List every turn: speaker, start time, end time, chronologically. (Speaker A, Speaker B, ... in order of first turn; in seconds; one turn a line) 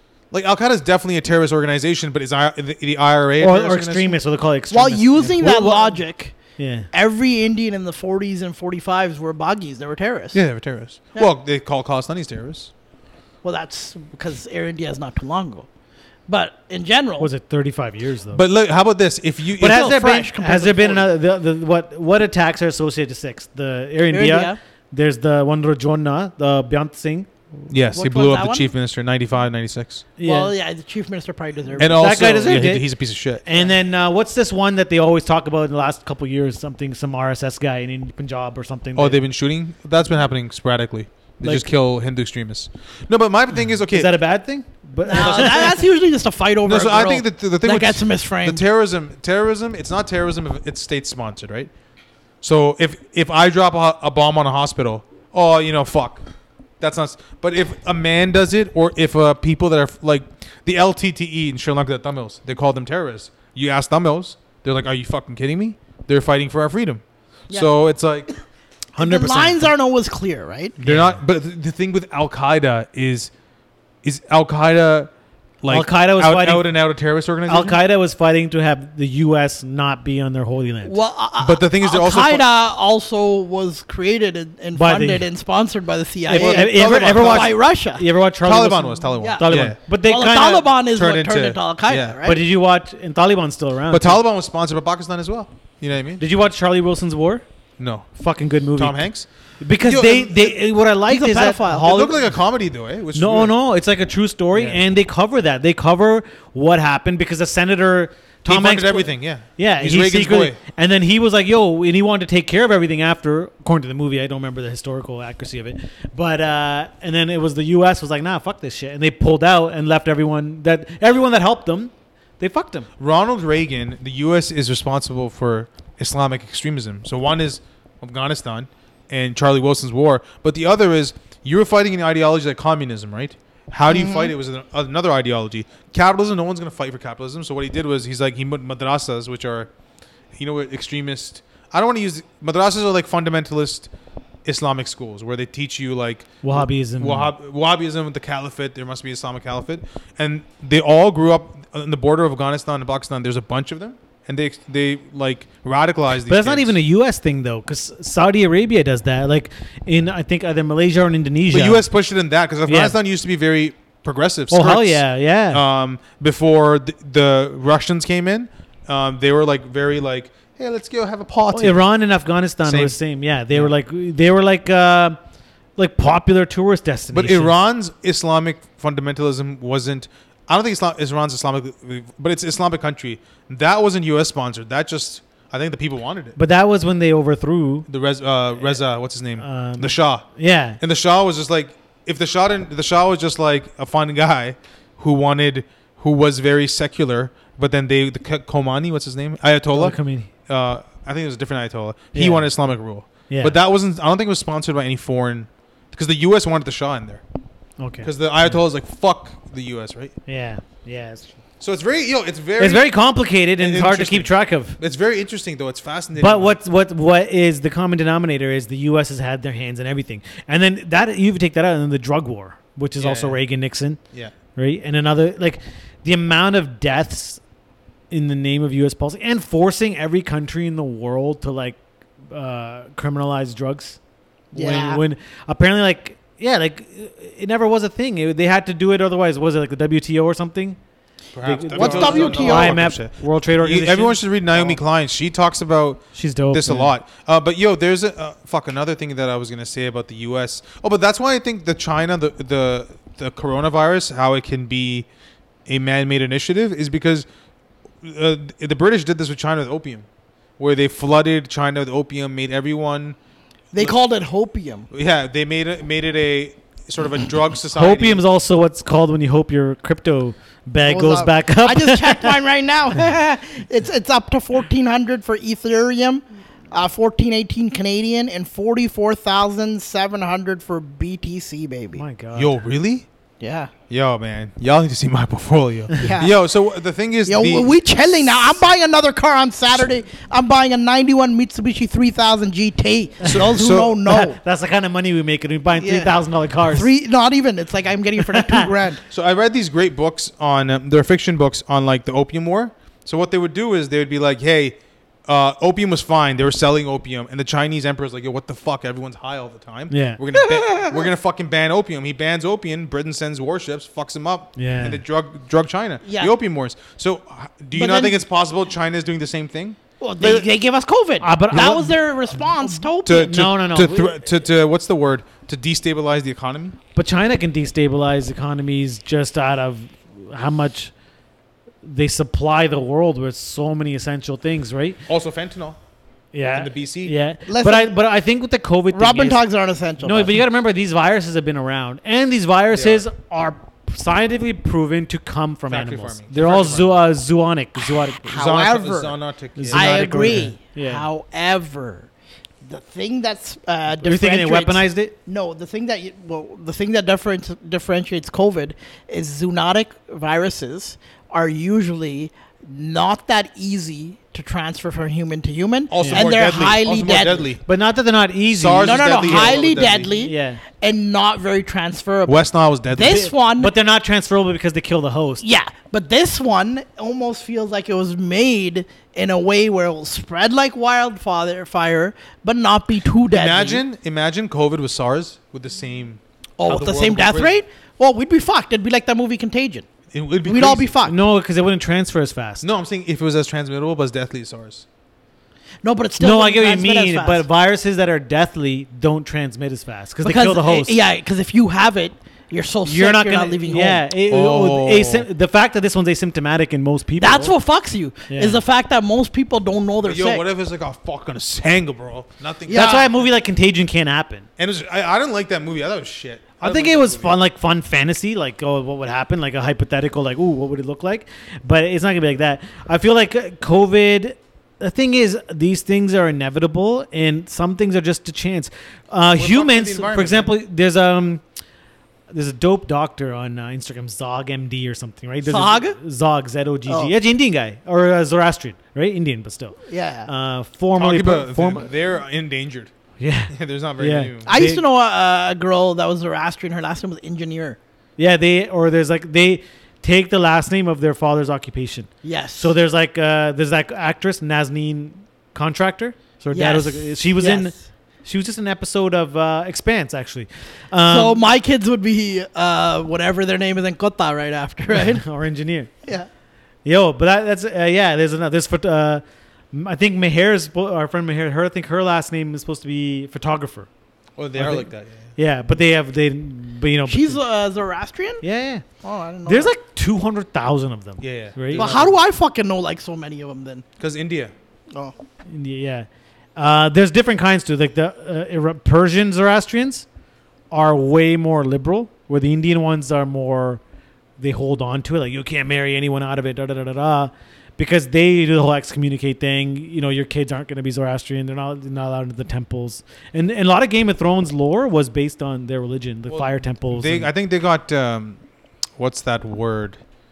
Speaker A: 0.3-4.2
Speaker B: 3.4-6.0
Speaker C: 4.7-6.4
Speaker B: 6.6-6.9
Speaker C: 6.9-10.4
Speaker A: 10.3-12.7
Speaker C: 13.4-15.7
Speaker C: 16.3-17.3
Speaker B: 17.2-18.4
Speaker A: 18.3-19.9
Speaker B: 19.6-27.3
Speaker C: 19.6-21.1
Speaker C: 24.1-24.6
Speaker A: 27.7-30.1
Speaker C: 27.9-28.7
Speaker B: 30.2-30.5
Speaker C: 30.2-32.6
Speaker B: 31.8-32.9
Speaker A: 31.8-33.4
Speaker B: 33.4-39.2
Speaker A: 39.0-44.1
Speaker B: 41.4-41.7
Speaker B: 43.9-45.8
Speaker C: 45.0-48.6
Speaker A: 45.1-45.5
Speaker A: 46.6-51.7
Speaker A: 52.4-56.2
Speaker A: 56.8-68.3
Speaker B: 69.0-69.7
Speaker C: 69.0-70.8
Speaker B: 70.8-71.2
Speaker A: 70.8-73.3
Speaker A: 74.0-75.1
Speaker A: 75.6-77.8
Speaker B: 75.7-76.7
Speaker B: 77.5-81.0
Speaker C: 80.8-88.0
Speaker A: 81.4-82.5
Speaker B: 84.7-85.2
Speaker B: 86.3-90.7
Speaker A: 86.3-87.5
Speaker A: 88.4-89.8
Speaker C: 89.2-92.4
Speaker A: 90.9-92.2
Speaker B: 92.2-94.2
Speaker A: 93.9-96.2
Speaker B: 96.2-97.4
Speaker A: 97.8-98.1
Speaker B: 98.2-99.1
Speaker A: 98.8-99.3
Speaker B: 99.6-102.2
Speaker A: 99.8-100.3
Speaker C: 100.2-102.1
Speaker A: 101.8-103.5
Speaker B: 103.1-122.9
Speaker A: 104.5-104.8
Speaker A: 108.5-110.6
Speaker A: 123.0-139.7
Speaker C: 133.9-134.3
Speaker A: 140.3-143.9
Speaker A: 144.4-156.8
Speaker B: 146.4-147.3
Speaker B: 156.3-161.8
Speaker A: 161.5-171.8
Speaker B: 162.7-162.9
Speaker B: 164.5-165.6
Speaker B: 171.5-175.2
Speaker A: 172.6-173.0
Speaker B: 175.8-177.5
Speaker A: 177.1-186.4
Speaker B: 186.3-187.9
Speaker A: 187.9-190.2
Speaker B: 189.4-190.8
Speaker A: 190.8-207.2
Speaker B: 199.7-200.3
Speaker B: 202.1-202.5
Speaker B: 203.3-203.6
Speaker B: 207.8-208.5
Speaker A: 208.0-210.1
Speaker B: 210.3-211.3
Speaker A: 211.6-212.9
Speaker B: 212.6-214.8
Speaker A: 213.6-216.6
Speaker B: 216.2-224.0
Speaker A: 223.0-223.4
Speaker B: 224.5-227.4
Speaker B: 228.1-231.8
Speaker B: 232.3-234.0
Speaker C: 234.5-235.0
Speaker B: 234.5-240.8
Speaker A: 241.3-255.1
Speaker B: 241.4-244.8
Speaker C: 241.7-242.8
Speaker B: 246.1-246.9
Speaker A: 255.7-257.2
Speaker A: 258.0-260.1
Speaker A: 260.6-263.2
Speaker C: 263.7-264.9
Speaker A: 264.9-268.2
Speaker B: 267.7-272.3
Speaker C: 270.8-282.0
Speaker B: 281.9-282.6
Speaker A: 282.3-283.1
Speaker C: 283.4-283.7
Speaker A: 283.9-287.8
Speaker C: 286.0-286.4
Speaker C: 287.2-294.4
Speaker A: 293.2-294.0
Speaker B: 294.1-296.9
Speaker C: 295.8-296.1
Speaker C: 296.7-299.0
Speaker B: 298.2-298.7
Speaker A: 299.1-320.3
Speaker B: 309.9-310.2
Speaker C: 310.3-311.1
Speaker B: 314.6-315.0
Speaker C: 316.0-316.3
Speaker C: 317.7-318.2
Speaker C: 320.0-323.4
Speaker B: 321.2-322.0
Speaker A: 323.0-326.8
Speaker B: 323.1-324.2
Speaker B: 326.9-330.9
Speaker B: 331.8-335.0
Speaker A: 335.1-335.8
Speaker B: 336.3-339.4
Speaker A: 336.5-337.1
Speaker C: 337.5-337.9
Speaker C: 338.9-340.4
Speaker B: 340.0-348.4
Speaker A: 342.7-343.0
Speaker A: 345.7-346.9
Speaker C: 348.2-349.2
Speaker A: 348.3-350.5
Speaker B: 349.6-351.0
Speaker C: 349.7-352.1
Speaker C: 352.6-367.5
Speaker B: 354.0-355.1
Speaker A: 365.9-367.6
Speaker B: 366.0-366.3
Speaker B: 367.6-370.6
Speaker A: 368.5-370.1
Speaker C: 368.8-373.7
Speaker A: 372.3-373.3
Speaker B: 373.1-375.4
Speaker C: 375.4-383.8
Speaker A: 383.3-387.6
Speaker C: 386.6-389.9
Speaker A: 390.1-390.9
Speaker C: 390.4-391.1
Speaker B: 391.0-392.7
Speaker A: 392.6-394.9
Speaker C: 395.8-397.4
Speaker B: 396.2-401.0
Speaker C: 400.2-404.0
Speaker B: 402.8-407.5
Speaker A: 404.3-405.3
Speaker C: 407.2-410.4
Speaker B: 408.3-408.6
Speaker A: 410.0-413.2
Speaker C: 412.7-413.1
Speaker B: 412.7-414.5
Speaker A: 414.6-417.4
Speaker B: 416.6-431.4
Speaker A: 429.3-430.5
Speaker B: 432.3-441.9
Speaker C: 435.4-436.0
Speaker C: 436.9-437.1
Speaker C: 439.9-440.3
Speaker A: 440.9-442.9
Speaker B: 443.2-444.8
Speaker A: 443.5-444.5
Speaker C: 444.4-447.8
Speaker B: 448.2-457.7
Speaker C: 452.2-452.7
Speaker C: 456.5-457.8
Speaker B: 458.2-461.4
Speaker C: 461.1-465.2
Speaker B: 464.9-465.9
Speaker B: 466.8-473.9
Speaker A: 474.4-475.3
Speaker B: 474.5-477.4
Speaker C: 477.1-478.4
Speaker B: 478.4-478.8
Speaker C: 479.0-479.7
Speaker B: 479.4-481.9
Speaker A: 481.2-482.2
Speaker C: 481.7-483.8
Speaker A: 484.0-484.5
Speaker B: 485.5-490.1
Speaker B: 490.7-493.8
Speaker B: 494.4-507.3
Speaker A: 506.3-508.4
Speaker A: 509.0-510.0